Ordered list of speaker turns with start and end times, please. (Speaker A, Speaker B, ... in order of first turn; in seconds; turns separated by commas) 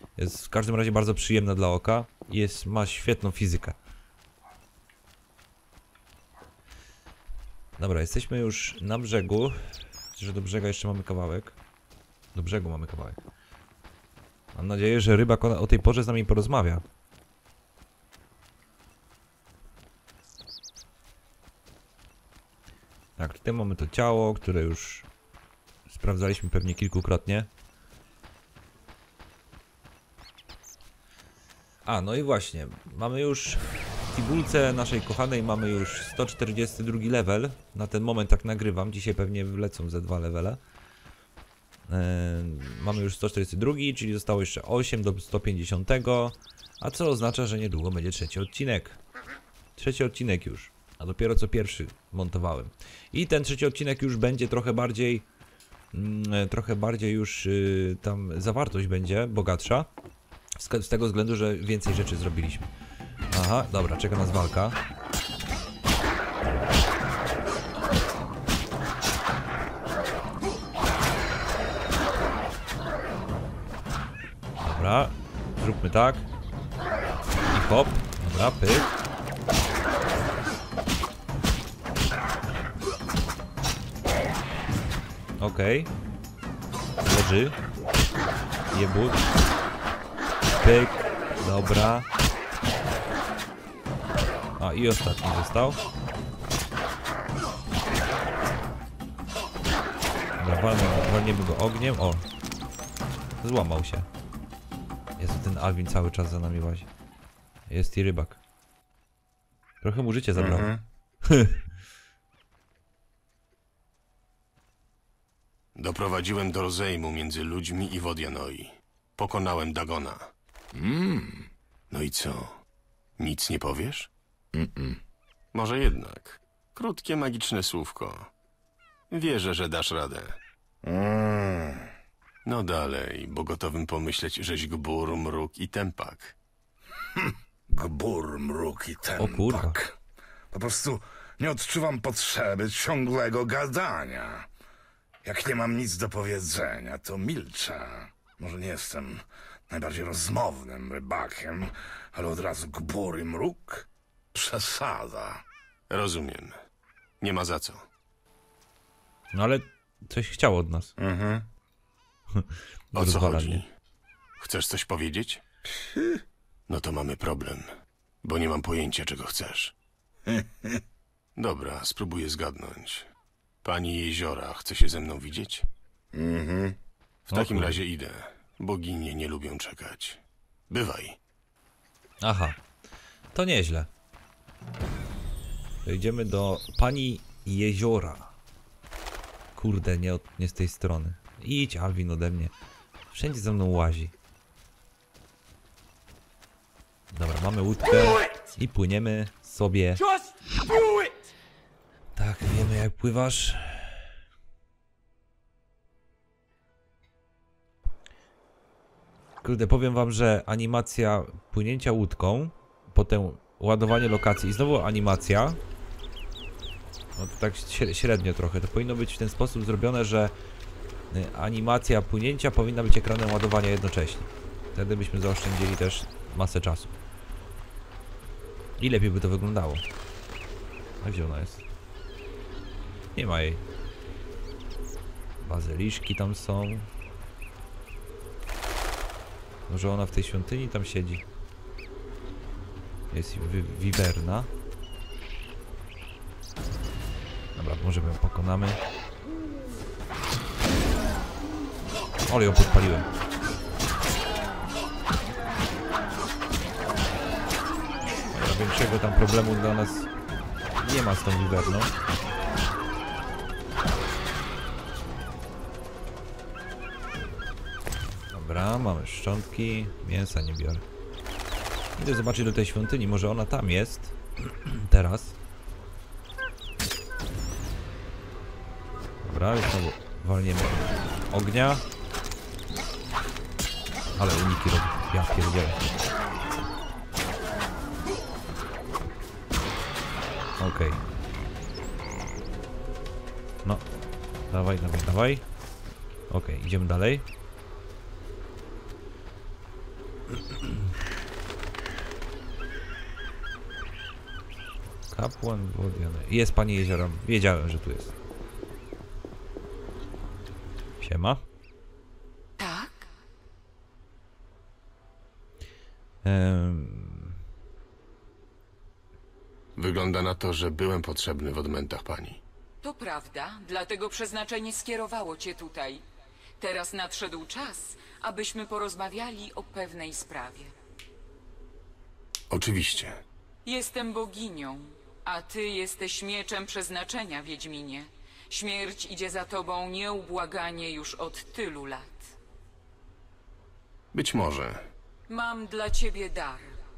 Speaker A: 0.2-3.8, Speaker A: 7.8-11.6, Speaker A: 12.3-13.2, Speaker A: 14.5-16.8, Speaker A: 23.2-25.1, Speaker A: 25.9-27.5, Speaker A: 31.9-40.6, Speaker A: 41.9-49.0, Speaker A: 49.8-55.3, Speaker A: 55.9-59.9, Speaker A: 60.6-62.7, Speaker A: 63.3-64.8, Speaker A: 74.6-76.3, Speaker A: 77.5-78.9, Speaker A: 85.4-85.9, Speaker A: 87.0-87.6, Speaker A: 88.7-89.3, Speaker A: 90.6-92.1, Speaker A: 94.6-95.8, Speaker A: 100.4-102.2, Speaker A: 103.4-104.1, Speaker A: 105.2-106.9, Speaker A: 107.7-108.4, Speaker A: 109.8-111.6, Speaker B: 110.3-110.8, Speaker C: 115.8-120.3, Speaker B: 120.8-121.5, Speaker C: 121.9-122.6, Speaker C: 123.2-124.1, Speaker B: 124.5-125.0, Speaker C: 125.5-128.3, Speaker C: 129.1-130.4, Speaker B: 130.8-131.8, Speaker C: 132.4-136.3, Speaker B: 137.2-140.0, Speaker A: 139.2-139.8, Speaker B: 140.5-144.5, Speaker B: 145.2-155.4, Speaker C: 155.9-156.6, Speaker C: 157.2-157.8, Speaker A: 159.3-160.9, Speaker B: 161.0-161.4, Speaker A: 162.3-163.6, Speaker C: 162.9-163.7, Speaker C: 164.4-165.4, Speaker B: 165.8-166.1, Speaker C: 166.7-167.7, Speaker C: 168.2-169.7, Speaker B: 170.3-170.8, Speaker C: 171.4-173.1, Speaker C: 173.6-175.7, Speaker B: 176.1-176.8, Speaker C: 177.3-181.2, Speaker A: 177.3-177.8, Speaker A: 182.2-182.6, Speaker A: 183.3-183.9, Speaker A: 185.8-188.3, Speaker A: 189.6-192.5, Speaker A: 193.1-194.1, Speaker A: 197.1-200.0, Speaker A: 202.2-204.0, Speaker A: 209.4-215.6, Speaker A: 217.2-220.3, Speaker A: 221.1-227.0, Speaker A: 228.8-229.8, Speaker A: 231.0-231.6, Speaker A: 233.2-233.6, Speaker A: 235.4-236.9, Speaker A: 239.7-241.2, Speaker A: 243.1-244.5, Speaker A: 247.6-248.8, Speaker A: 252.3-253.1, Speaker A: 258.3-260.1, Speaker A: 260.8-261.9, Speaker A: 268.3-270.9, Speaker A: 272.0-275.4, Speaker A: 279.2-281.8, Speaker A: 284.2-285.9, Speaker A: 290.6-291.0, Speaker A: 294.5-295.4, Speaker A: 296.3-297.3, Speaker A: 305.1-308.1, Speaker A: 311.0-311.4, Speaker D: 312.6-313.1, Speaker A: 316.2-317.4, Speaker C: 319.8-322.4, Speaker D: 322.8-326.0, Speaker D: 326.6-330.7, Speaker C: 332.5-333.2, Speaker D: 333.6-342.3, Speaker C: 344.1-344.8, Speaker D: 345.3-346.8